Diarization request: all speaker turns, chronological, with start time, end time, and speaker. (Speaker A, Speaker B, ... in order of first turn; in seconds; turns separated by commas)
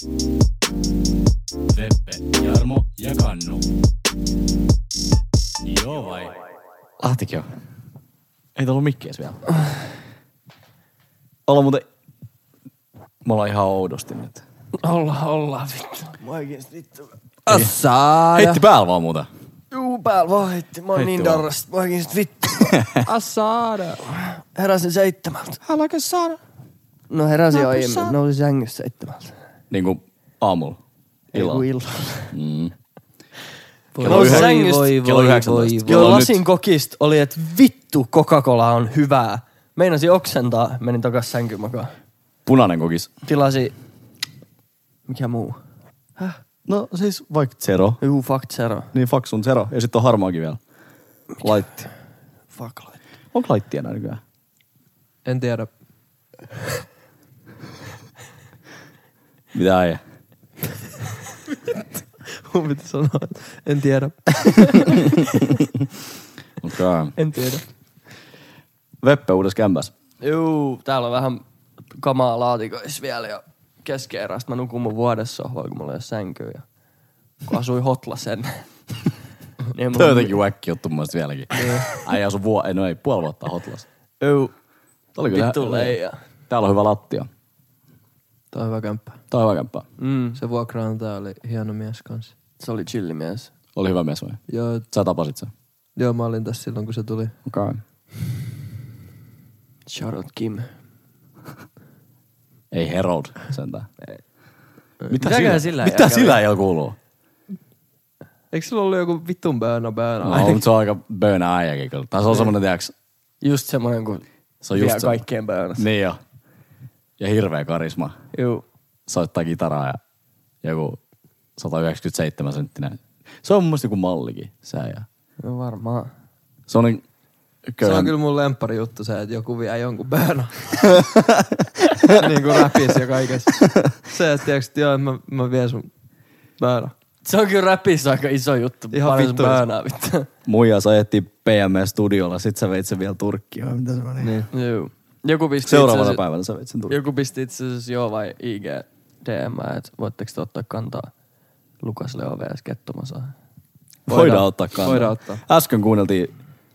Speaker A: 1.7-3.6, Speaker A: 5.6-6.3, Speaker A: 7.0-7.6, Speaker A: 8.6-9.5, Speaker A: 11.5-11.8, Speaker A: 13.2-14.4, Speaker B: 14.8-17.1, Speaker C: 17.5-18.6, Speaker A: 18.3-19.3, Speaker B: 19.7-22.7, Speaker A: 20.9-21.4, Speaker A: 22.7-23.0, Speaker C: 23.0-24.0, Speaker B: 24.1-25.6, Speaker A: 25.6-26.4, Speaker B: 27.1-29.4, Speaker C: 27.5-28.1, Speaker A: 29.7-30.8, Speaker B: 31.3-32.3, Speaker A: 31.3-32.7, Speaker C: 33.9-36.2, Speaker A: 34.0-36.3, Speaker B: 34.0-35.3, Speaker B: 35.8-41.9, Speaker A: 42.5-43.1, Speaker B: 43.2-43.7, Speaker B: 45.1-45.6, Speaker A: 46.7-48.0, Speaker B: 48.0-48.9, Speaker A: 48.9-50.6, Speaker A: 51.4-51.8, Speaker B: 52.5-52.9, Speaker A: 53.3-54.2, Speaker C: 55.2-55.7, Speaker A: 59.5-60.0, Speaker C: 62.4-65.0, Speaker A: 66.6-67.2, Speaker B: 67.2-67.6, Speaker A: 69.0-69.9, Speaker B: 70.2-76.6, Speaker B: 77.5-79.0, Speaker B: 79.7-80.4, Speaker A: 79.9-83.8, Speaker C: 81.5-81.8, Speaker B: 84.2-84.5, Speaker A: 85.2-86.0, Speaker B: 85.3-86.2, Speaker A: 86.5-87.3, Speaker C: 88.5-89.2, Speaker A: 89.3-89.8, Speaker B: 90.0-90.4, Speaker C: 90.3-92.3, Speaker B: 92.6-93.5, Speaker A: 93.8-95.5, Speaker C: 94.5-94.8, Speaker C: 96.0-97.3, Speaker A: 97.5-97.8, Speaker B: 99.8-100.7, Speaker A: 102.7-103.9, Speaker B: 105.0-106.4, Speaker A: 105.1-107.0, Speaker C: 108.5-110.6, Speaker A: 110.2-112.9, Speaker B: 113.4-115.8, Speaker A: 114.6-115.2, Speaker A: 115.8-116.2, Speaker A: 117.2-118.2, Speaker B: 118.3-118.6, Speaker A: 119.1-120.0, Speaker A: 120.6-121.0, Speaker A: 121.6-125.0, Speaker B: 125.4-126.1, Speaker A: 126.7-127.0, Speaker A: 127.7-128.1, Speaker C: 127.8-131.0, Speaker C: 132.1-135.9, Speaker C: 136.6-136.9, Speaker B: 137.2-140.3, Speaker C: 138.9-139.6, Speaker A: 140.4-144.3, Speaker C: 144.2-144.5, Speaker B: 144.5-146.2, Speaker A: 145.6-147.0, Speaker B: 146.9-151.1, Speaker B: 151.8-153.3, Speaker C: 154.1-155.4, Speaker A: 154.1-156.3